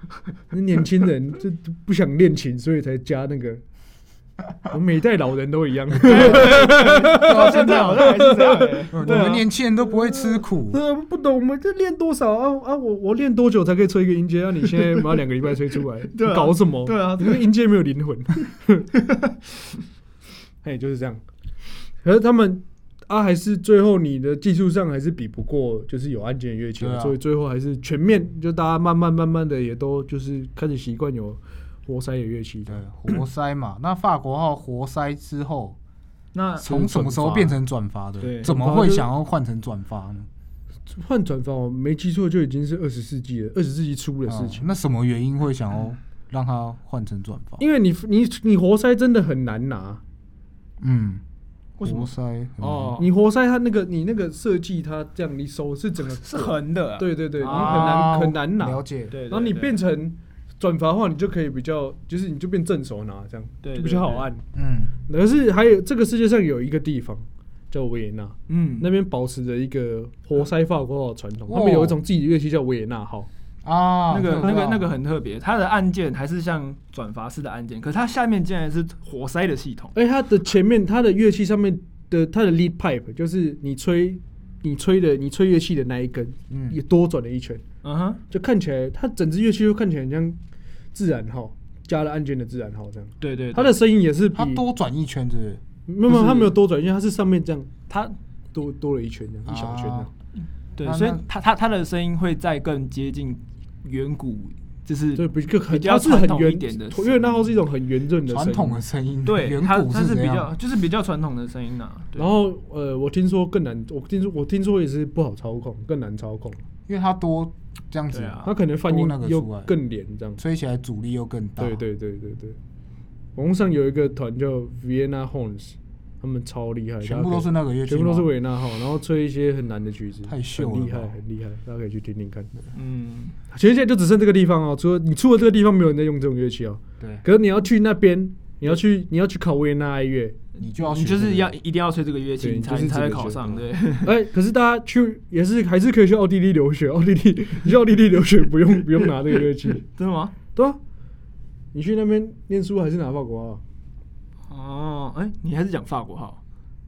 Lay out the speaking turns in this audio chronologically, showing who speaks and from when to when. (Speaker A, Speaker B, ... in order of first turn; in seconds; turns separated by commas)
Speaker A: 0.5-3.6, Speaker A: 4.7-18.9, Speaker B: 5.9-8.1, Speaker C: 6.0-9.4, Speaker B: 8.9-10.8, Speaker C: 16.1-17.5, Speaker A: 20.6-21.2, Speaker A: 22.0-32.8, Speaker B: 26.8-27.2, Speaker B: 32.7-35.8, Speaker C: 36.3-36.8, Speaker B: 36.6-40.3, Speaker A: 36.7-37.6, Speaker C: 38.2-38.5, Speaker A: 38.5-39.1, Speaker A: 40.9-44.6, Speaker B: 44.3-47.6, Speaker A: 47.6-50.0, Speaker B: 50.8-51.2, Speaker C: 51.8-53.1, Speaker B: 51.8-53.0, Speaker A: 53.0-64.4, Speaker C: 56.1-58.1, Speaker B: 57.4-59.1, Speaker C: 59.1-59.8, Speaker C: 63.6-64.3, Speaker B: 64.5-64.9, Speaker A: 65.1-73.3, Speaker C: 68.5-68.9, Speaker B: 71.5-72.0, Speaker B: 73.6-74.8, Speaker C: 74.1-80.0, Speaker A: 80.0-87.6, Speaker B: 86.5-86.8, Speaker C: 87.8-88.2, Speaker A: 88.3-90.4, Speaker A: 90.9-94.6, Speaker C: 93.2-93.8, Speaker B: 94.3-95.6, Speaker A: 95.9-97.7, Speaker C: 96.1-96.5, Speaker C: 97.9-98.2, Speaker A: 98.5-100.1, Speaker B: 99.5-100.1, Speaker C: 100.8-107.4, Speaker B: 100.8-101.2, Speaker A: 105.2-108.8, Speaker B: 108.3-110.5, Speaker C: 109.3-112.3, Speaker A: 112.2-116.6, Speaker B: 116.9-119.7, Speaker C: 118.1-118.5, Speaker A: 118.5-120.4, Speaker B: 120.4-121.8, Speaker A: 121.6-122.6, Speaker A: 123.4-132.5, Speaker B: 127.0-128.3, Speaker B: 130.3-131.2, Speaker C: 132.7-133.4, Speaker A: 133.5-140.4, Speaker C: 140.6-144.1, Speaker B: 140.6-141.5, Speaker A: 142.4-149.8, Speaker C: 149.9-150.3, Speaker A: 151.7-153.6, Speaker C: 154.5-156.4